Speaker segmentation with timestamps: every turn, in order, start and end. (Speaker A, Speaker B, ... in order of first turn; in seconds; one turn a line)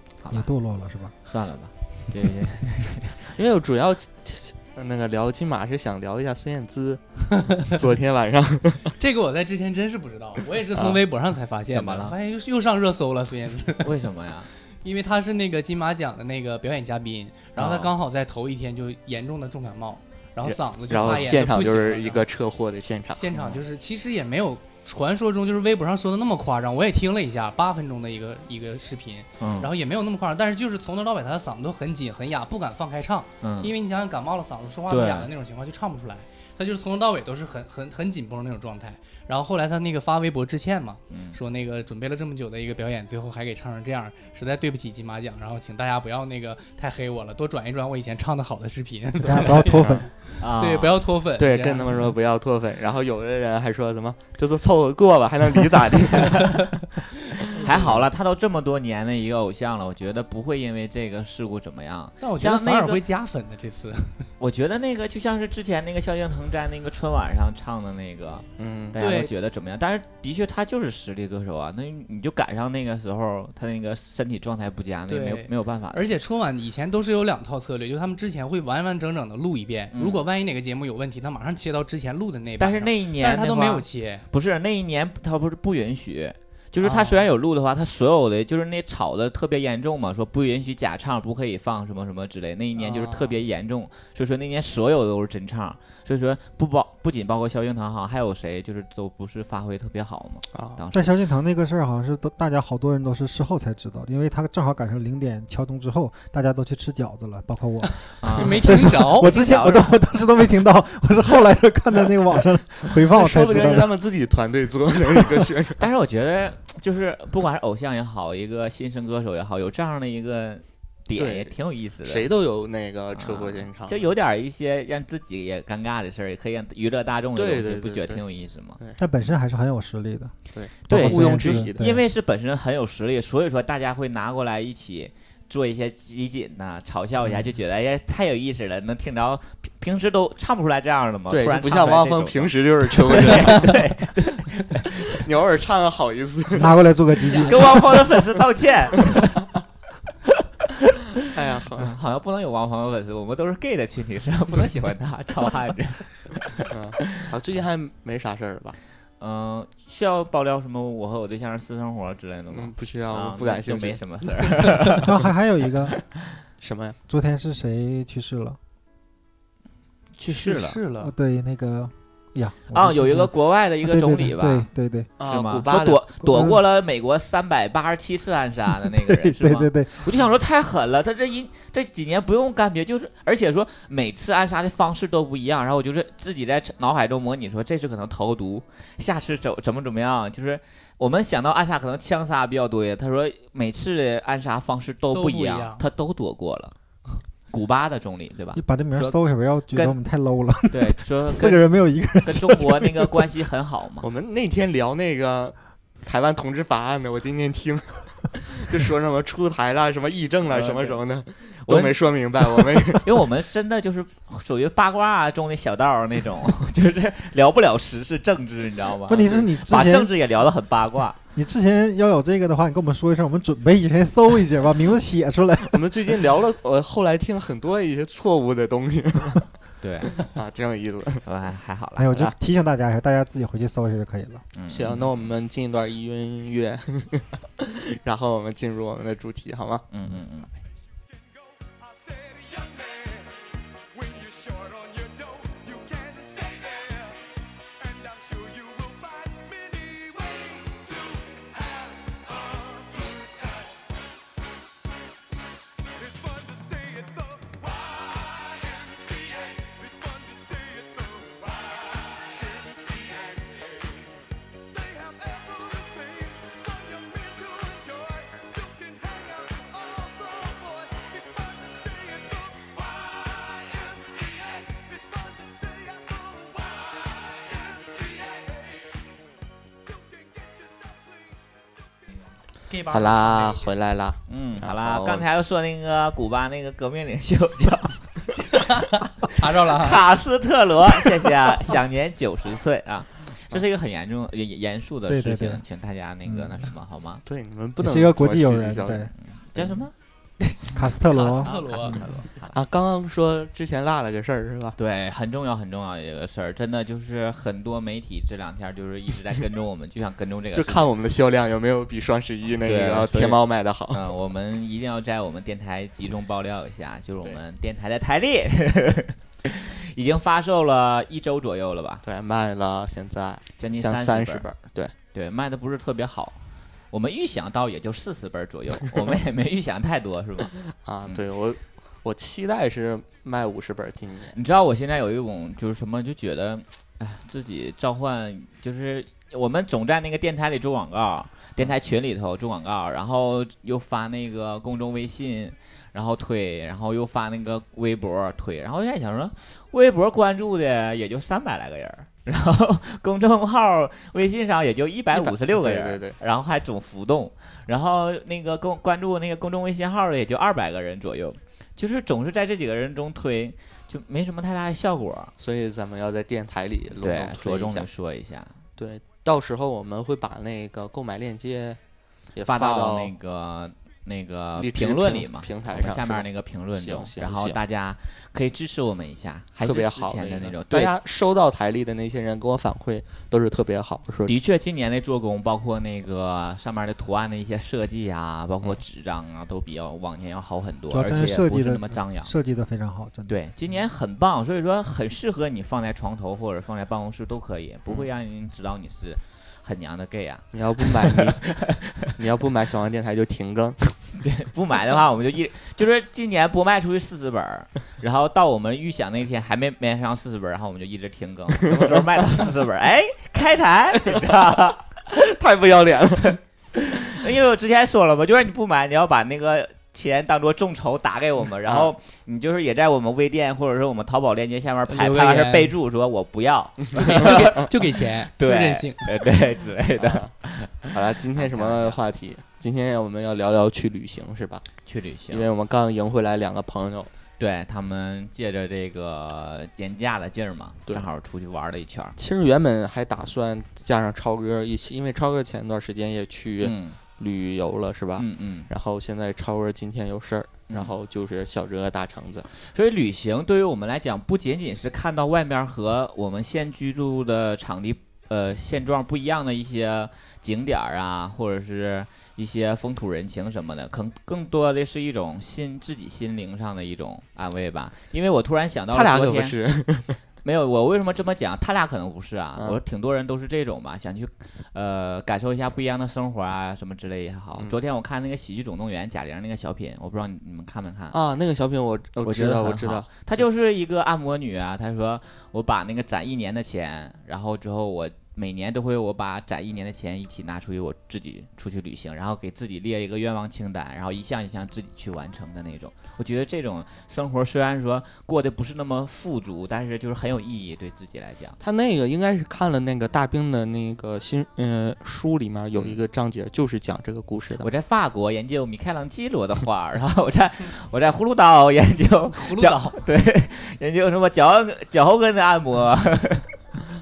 Speaker A: 0.2-0.5
Speaker B: 0.3-1.1
Speaker A: 1.2-3.2
Speaker C: 3.3-8.9
Speaker D: 8.9-14.0
Speaker C: 10.7-11.0
Speaker A: 11.7-12.1
Speaker A: 13.8-14.5
Speaker D: 14.7-22.2
Speaker A: 17.6-17.9
Speaker C: 20.4-23.2
Speaker D: 23.1-52.1
Speaker A: 23.3-23.6
Speaker A: 29.4-29.7
Speaker A: 33.4-33.7
Speaker A: 34.9-35.3
Speaker A: 41.1-41.4
Speaker B: 49.2-50.1
Speaker C: 49.6-50.0
Speaker A: 50.4-51.0
Speaker C: 51.4-56.7
Speaker D: 57.4-58.0
Speaker C: 57.5-57.9
Speaker A: 57.6-63.0
Speaker D: 62.2-64.3
Speaker A: 64.4-76.0
Speaker C: 68.6-69.0
Speaker D: 69.0-69.3
Speaker D: 75.1-84.3
Speaker A: 79.9-80.2
Speaker A: 82.6-101.1
Speaker D: 86.8-87.2
Speaker D: 92.7-93.3
Speaker C: 100.5-100.8
Speaker B: 100.9-114.0
Speaker A: 108.2-110.0
Speaker D: 108.2-109.4
Speaker C: 113.1-115.8
Speaker A: 115.8-122.3
Speaker C: 121.2-121.5
Speaker C: 122.0-124.0
Speaker A: 123.1-128.8
Speaker C: 127.3-128.2
Speaker B: 129.0-130.3
Speaker C: 130.5-131.9
Speaker A: 130.8-145.2
Speaker B: 130.9-132.0
Speaker C: 141.3-143.9
Speaker C: 145.0-146.8
Speaker B: 146.5-147.8
Speaker A: 147.5-149.3
Speaker C: 147.7-148.2
Speaker C: 149.0-149.3
Speaker A: 150.6-150.9
Speaker C: 151.2-151.9
Speaker A: 151.8-156.1
Speaker C: 156.7-158.8
Speaker A: 159.2-165.1
Speaker C: 162.5-164.6
Speaker B: 164.9-165.9
Speaker C: 166.6-167.0
Speaker B: 167.1-168.6
Speaker A: 170.2-170.8
Speaker D: 170.3-171.1
Speaker B: 171.0-175.1
Speaker A: 172.7-174.7
Speaker C: 175.2-176.0
Speaker A: 175.2-196.7
Speaker B: 176.2-176.6
Speaker B: 178.8-180.1
Speaker D: 195.1-195.8
Speaker A: 197.5-199.2
Speaker B: 198.5-203.3
Speaker A: 199.7-200.0
Speaker A: 200.7-201.7
Speaker A: 202.2-204.1
Speaker C: 204.0-213.1
Speaker A: 210.5-211.0
Speaker A: 211.6-211.9
Speaker A: 213.0-221.2
Speaker B: 219.1-220.1
Speaker B: 221.3-225.8
Speaker C: 225.7-229.5
Speaker A: 229.8-230.2
Speaker C: 230.1-231.2
Speaker A: 231.2-232.3
Speaker B: 232.0-234.4
Speaker A: 234.5-235.3
Speaker C: 234.7-239.8
Speaker A: 239.9-240.5
Speaker E: 241.8-243.2
Speaker E: 243.9-247.1
Speaker E: 247.8-251.2
Speaker E: 252.3-253.6
Speaker E: 256.0-264.1
Speaker E: 264.7-272.6
Speaker E: 273.5-276.4
Speaker E: 278.0-278.3
Speaker D: 282.7-283.7
Speaker C: 282.9-285.2
Speaker A: 284.3-288.7
Speaker D: 288.5-290.0
Speaker A: 289.3-297.2
Speaker B: 295.1-295.6
Speaker B: 296.2-296.6
Speaker C: 297.2-299.8
Speaker B: 297.8-299.1
Speaker A: 299.2-299.9
Speaker B: 300.4-302.2
Speaker D: 301.0-302.2
Speaker C: 301.4-304.8
Speaker A: 304.8-310.9
Speaker C: 310.5-314.0
Speaker A: 312.6-322.0
Speaker C: 322.0-324.9
Speaker A: 323.6-324.5
Speaker A: 325.1-326.4
Speaker A: 326.9-330.5
Speaker C: 330.7-334.3
Speaker A: 334.3-365.3
Speaker C: 355.1-356.2
Speaker C: 365.4-367.9
Speaker A: 367.0-368.6
Speaker C: 368.8-371.8
Speaker C: 372.3-373.1
Speaker A: 372.4-380.9
Speaker C: 374.6-377.6
Speaker C: 379.6-384.3
Speaker A: 384.3-392.3
Speaker B: 390.9-393.3
Speaker A: 393.3-401.9
Speaker C: 400.5-401.5
Speaker C: 402.1-403.9
Speaker A: 404.2-414.9
Speaker C: 411.6-412.0
Speaker C: 414.0-414.3
Speaker C: 415.1-416.4
Speaker A: 416.7-427.7
Speaker C: 421.6-421.9
Speaker D: 424.9-425.7
Speaker D: 426.9-429.1
Speaker A: 428.4-432.0
Speaker C: 430.0-430.3
Speaker C: 430.9-434.6
Speaker A: 434.8-435.5
Speaker C: 435.3-437.1
Speaker A: 437.4-442.1
Speaker C: 442.2-452.5
Speaker A: 446.6-447.0
Speaker A: 448.2-448.7
Speaker A: 450.7-450.9
Speaker A: 452.5-469.6
Speaker C: 468.9-470.2
Speaker A: 470.4-481.1
Speaker C: 481.1-483.2
Speaker A: 482.2-501.6
Speaker C: 501.6-507.7
Speaker A: 507.6-516.6
Speaker D: 512.3-513.0